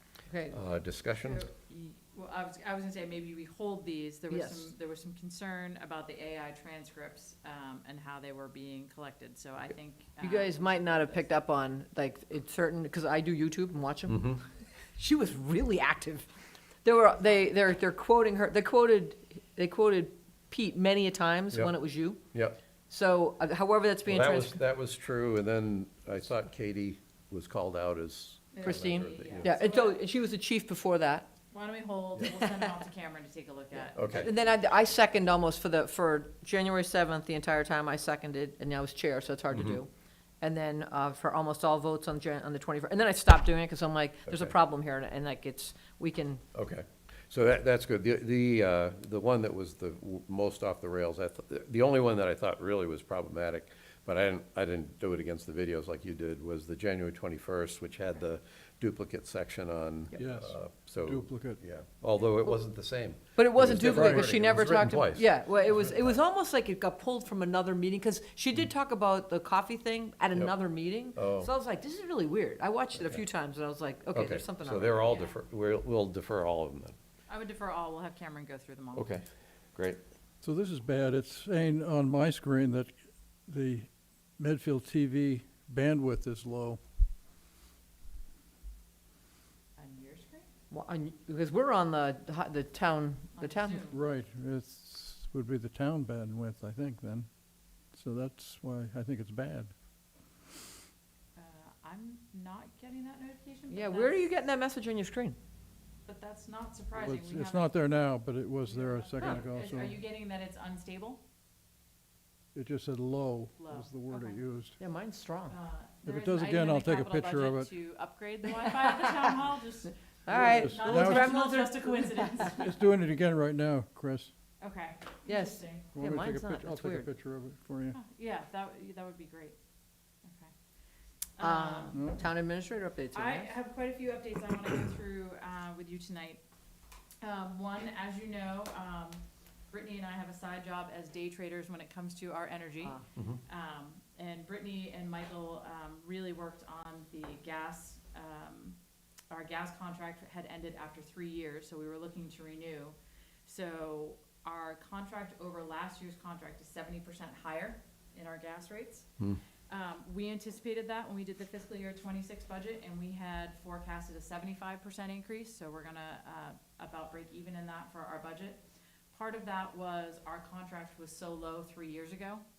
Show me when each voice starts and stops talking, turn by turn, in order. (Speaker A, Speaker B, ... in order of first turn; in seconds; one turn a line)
Speaker A: 0.3-0.6
Speaker B: 0.5-1.4
Speaker C: 1.2-11.3
Speaker A: 4.3-4.7
Speaker A: 10.2-14.4
Speaker B: 14.1-14.4
Speaker A: 14.9-16.3
Speaker A: 16.8-22.2
Speaker B: 22.3-22.6
Speaker A: 22.9-24.6
Speaker B: 24.1-29.6
Speaker C: 28.5-30.0
Speaker A: 28.6-31.3
Speaker C: 31.5-35.1
Speaker B: 34.0-34.3
Speaker A: 34.1-39.9
Speaker B: 39.5-39.8
Speaker A: 40.4-46.4
Speaker B: 44.3-44.5
Speaker B: 46.5-65.9
Speaker D: 60.2-61.6
Speaker A: 63.4-75.1
Speaker D: 63.8-64.7
Speaker B: 71.2-71.5
Speaker B: 74.1-77.0
Speaker C: 75.0-75.4
Speaker C: 77.3-79.2
Speaker B: 79.0-80.0
Speaker D: 80.4-86.8
Speaker C: 89.8-90.5
Speaker A: 90.7-93.8
Speaker C: 93.3-94.0
Speaker D: 93.9-99.8
Speaker C: 101.4-104.4
Speaker A: 103.7-105.4
Speaker C: 106.1-108.0
Speaker D: 107.0-110.0
Speaker C: 108.6-111.2
Speaker D: 112.5-114.8
Speaker C: 113.6-114.4
Speaker A: 114.8-115.5
Speaker C: 115.5-122.8
Speaker D: 116.0-117.7
Speaker A: 118.9-119.3
Speaker A: 120.3-122.5
Speaker D: 120.3-121.4
Speaker D: 122.5-124.3
Speaker C: 124.6-125.9
Speaker A: 125.3-127.1
Speaker D: 126.0-128.0
Speaker C: 127.9-129.6
Speaker C: 130.2-130.5
Speaker C: 131.4-132.0
Speaker A: 131.4-133.5
Speaker D: 131.9-132.2
Speaker C: 133.1-136.4
Speaker C: 137.2-148.8
Speaker C: 149.3-159.1
Speaker C: 159.7-172.4